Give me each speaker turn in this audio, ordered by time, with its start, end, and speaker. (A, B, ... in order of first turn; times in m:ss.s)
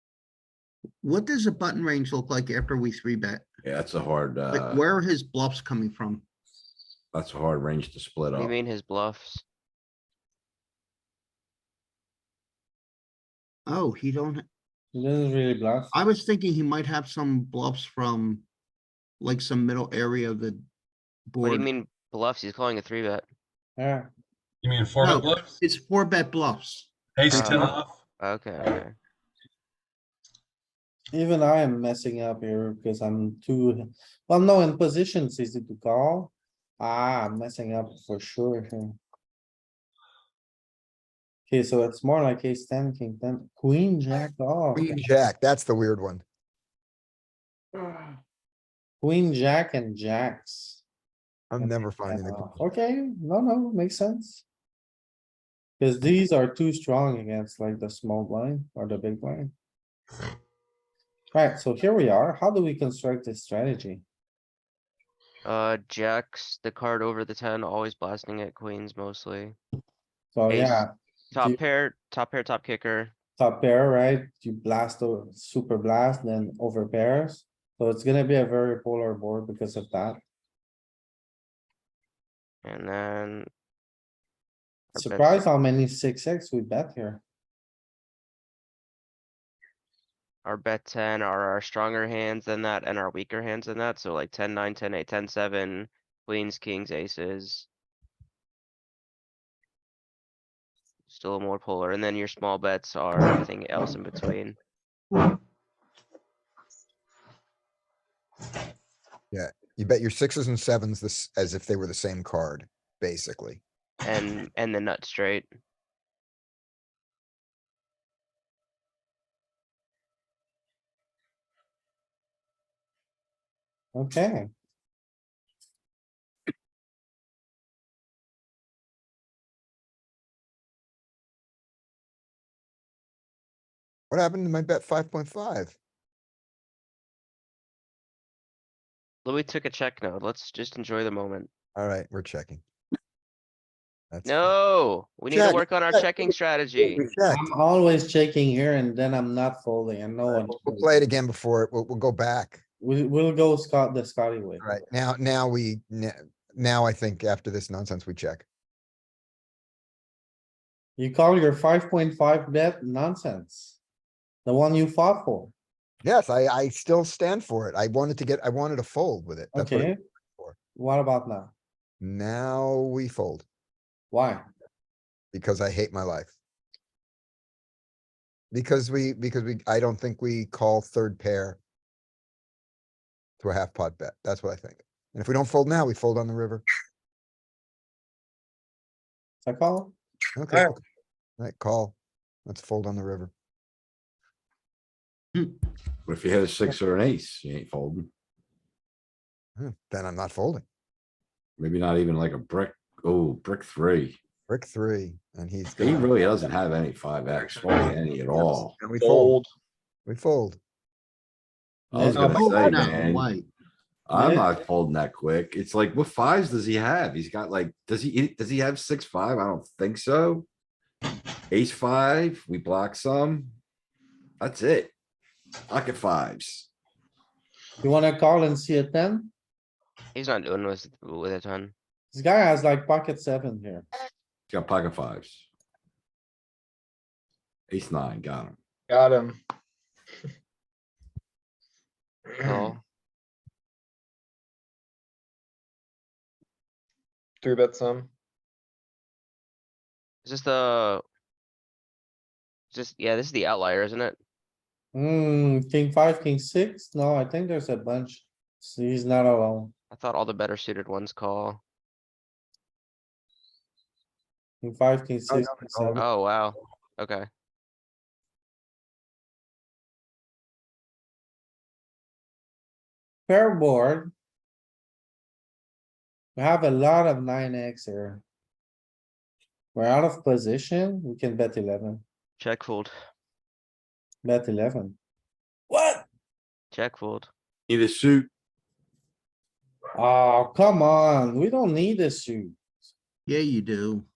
0:01.0-0:03.4 A
0:03.6-0:04.8 B
0:04.5-0:06.2 A
0:07.1-0:08.5 B
0:08.3-0:09.4 C
0:13.7-0:14.4 A
0:14.9-0:16.0 D
0:15.9-0:18.4 A
0:19.2-0:20.6 A
0:21.3-0:21.7 A
0:21.4-0:23.2 C
0:23.8-0:24.1 D
0:24.6-0:25.4 B
0:25.0-0:27.7 A
0:27.2-0:27.9 B
0:27.3-0:28.9 C
0:27.4-0:27.6 D
0:31.1-0:39.0 D
0:41.5-0:45.0 D
0:44.8-0:46.2 E
0:49.0-0:50.8 D
0:51.5-0:52.5 E
0:51.6-0:54.4 D
0:55.8-0:59.5 D
1:01.3-1:04.0 D
1:05.4-1:09.6 C
1:10.3-1:11.6 D
1:10.5-1:13.1 C
1:13.4-1:20.2 D
1:22.6-1:23.5 C
1:24.9-1:25.4 C
1:25.0-1:27.2 D
1:30.4-1:37.7 C
1:41.1-1:44.6 C
1:49.3-1:53.6 E
1:54.0-1:55.5 C
2:03.9-2:04.5 D
2:14.1-2:15.7 E
2:19.2-2:21.5 C
2:21.8-2:22.6 E
2:24.1-2:24.5 E
2:24.2-2:27.0 C
2:25.3-2:27.5 E
2:27.3-2:31.0 D
2:30.3-2:32.6 E
2:32.8-2:34.8 D
2:34.6-2:38.4 E
2:41.0-2:43.8 D
2:44.4-2:45.5 D
2:46.0-2:50.6 E
2:49.5-2:50.0 D
2:50.8-2:51.5 D
2:52.0-2:53.4 E
2:54.1-2:54.5 D
2:55.3-2:56.3 E
2:58.5-3:01.6 E
3:03.4-3:06.6 E
3:09.4-3:09.9 D
3:10.3-3:10.8 E
3:11.4-3:11.9 E
3:12.4-3:13.3 E
3:16.0-3:18.1 B
3:19.6-3:20.6 E
3:21.6-3:24.2 B
3:24.5-3:26.1 E
3:25.8-3:28.7 B
3:28.8-3:29.4 E
3:29.0-3:29.5 F
3:30.1-3:30.6 E
3:31.9-3:32.4 D
3:31.9-3:33.3 B
3:32.2-3:33.0 F
3:32.2-3:33.4 A
3:34.1-3:40.4 B
3:34.1-3:34.5 D
3:41.5-3:43.5 B
3:44.4-3:44.9 B
3:45.7-3:46.7 B
3:47.8-3:49.3 D
3:50.1-3:51.7 C
3:52.1-3:53.8 D
3:54.5-3:55.4 B
3:57.7-3:58.6 B
3:58.9-3:59.4 F
4:02.4-4:02.8 C
4:07.4-4:08.1 F
4:10.2-4:11.0 C
4:12.7-4:14.2 C
4:14.9-4:19.7 D
4:19.9-4:21.6 C
4:24.6-4:26.0 D
4:25.3-4:26.0 E
4:26.0-4:27.3 C
4:33.3-4:34.1 D
4:36.3-4:38.2 D
4:39.7-4:42.0 D
4:42.4-4:42.9 C
4:44.2-4:45.0 D
4:45.7-4:46.0 D
4:46.7-4:47.3 C
4:47.7-4:48.3 B
4:49.9-4:52.9 D
4:53.3-4:54.0 A